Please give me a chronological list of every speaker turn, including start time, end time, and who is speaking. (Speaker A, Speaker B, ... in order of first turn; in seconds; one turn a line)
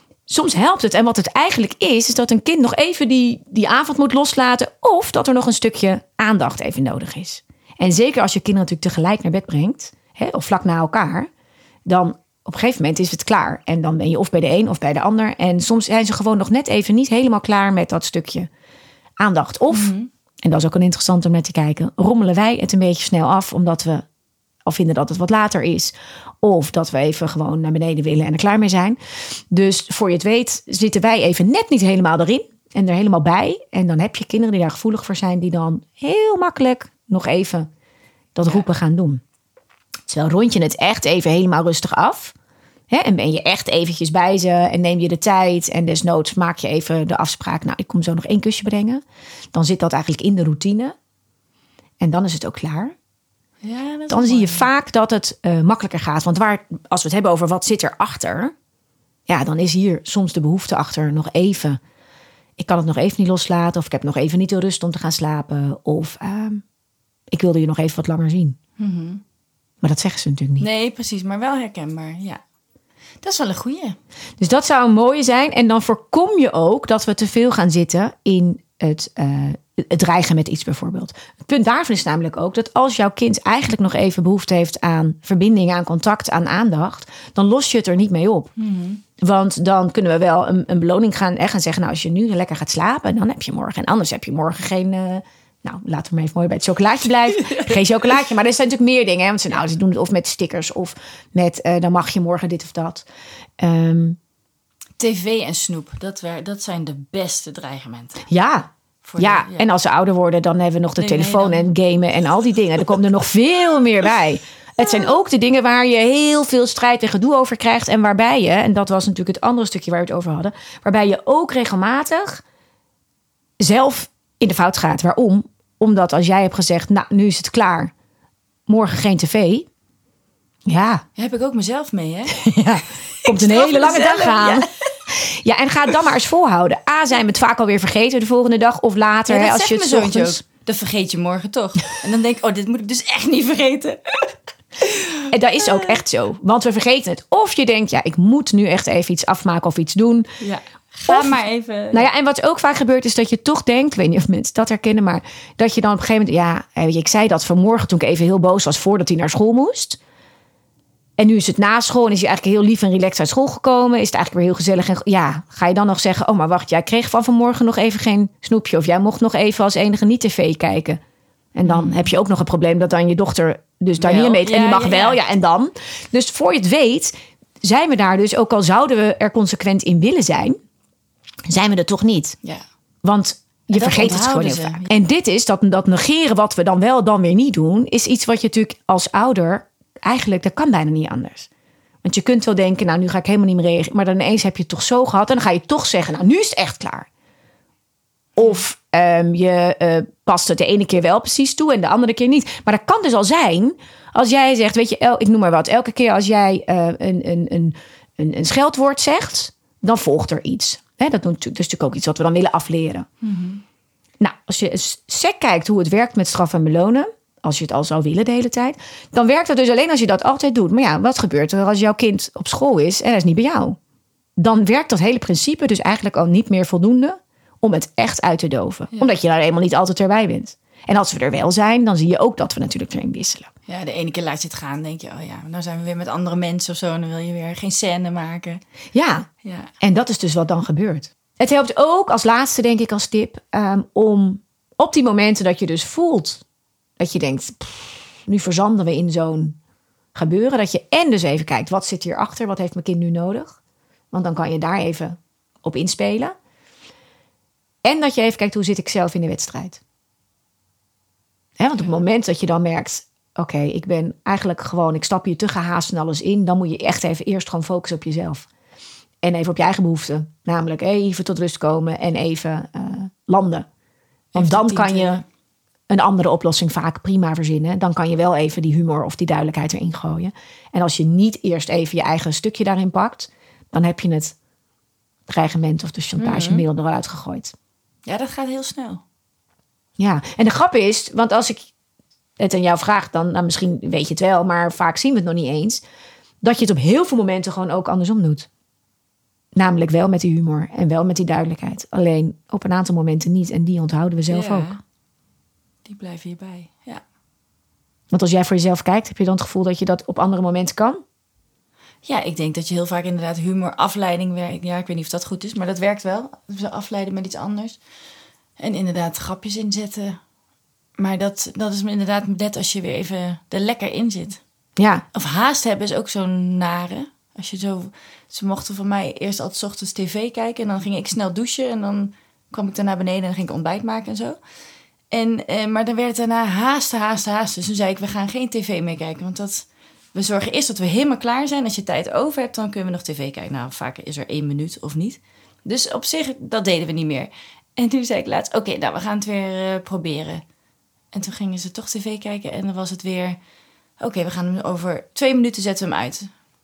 Speaker A: 0.3-11.3
Speaker A: 11.8-18.5
Speaker A: 19.2-24.0
Speaker B: 19.7-20.1
Speaker A: 24.6-29.0
Speaker A: 29.5-37.7
Speaker A: 38.4-39.2
Speaker A: 40.1-42.3
Speaker A: 42.9-49.0
Speaker A: 49.5-50.9
Speaker A: 52.0-52.9
Speaker B: 53.6-54.7
Speaker A: 54.1-58.5
Speaker A: 59.3-61.8
Speaker A: 62.6-66.6
Speaker A: 67.3-68.6
Speaker B: 68.8-69.2
Speaker A: 69.8-70.7
Speaker B: 70.6-72.4
Speaker B: 73.2-74.0
Speaker A: 74.4-88.5
Speaker B: 88.6-89.0
Speaker A: 89.2-103.0
Speaker A: 103.6-104.2
Speaker B: 105.0-108.2
Speaker A: 108.3-122.4
Speaker B: 109.0-109.7
Speaker B: 111.0-111.7
Speaker A: 123.6-127.9
Speaker A: 128.7-129.7
Speaker A: 130.7-131.0
Speaker B: 131.2-132.4
Speaker A: 132.3-140.4
Speaker B: 133.1-134.9
Speaker B: 139.3-145.9
Speaker A: 145.3-150.3
Speaker B: 150.4-152.1
Speaker A: 151.1-151.4
Speaker A: 151.9-160.0
Speaker A: 161.2-171.0
Speaker A: 171.5-180.6
Speaker B: 171.6-172.1
Speaker B: 174.0-175.2
Speaker A: 181.5-182.4
Speaker A: 183.0-191.5
Speaker B: 183.7-184.9
Speaker A: 192.0-197.1
Speaker A: 198.3-213.1
Speaker B: 213.2-213.6
Speaker A: 214.2-223.8
Speaker A: 224.4-233.5
Speaker B: 233.7-238.6
Speaker A: 238.9-239.3
Speaker B: 239.4-239.7
Speaker A: 239.8-246.4
Speaker A: 247.0-249.6
Speaker A: 250.1-253.6
Speaker A: 254.1-256.3
Speaker A: 257.8-259.8
Speaker A: 261.6-268.5
Speaker A: 269.2-273.7
Speaker A: 274.3-275.2
Speaker B: 274.3-275.2
Speaker A: 275.9-284.4
Speaker A: 285.3-287.5
Speaker B: 286.2-286.6
Speaker B: 288.1-289.0
Speaker A: 290.0-291.6
Speaker A: 292.4-295.8
Speaker A: 296.4-298.5
Speaker A: 299.5-304.7
Speaker B: 304.3-304.8
Speaker B: 305.9-307.0
Speaker A: 308.1-311.0
Speaker B: 312.0-317.8
Speaker B: 318.6-320.2
Speaker B: 321.0-324.4
Speaker A: 324.8-325.0
Speaker B: 325.1-334.4
Speaker B: 335.1-350.4
Speaker B: 351.1-353.4
Speaker B: 354.0-356.3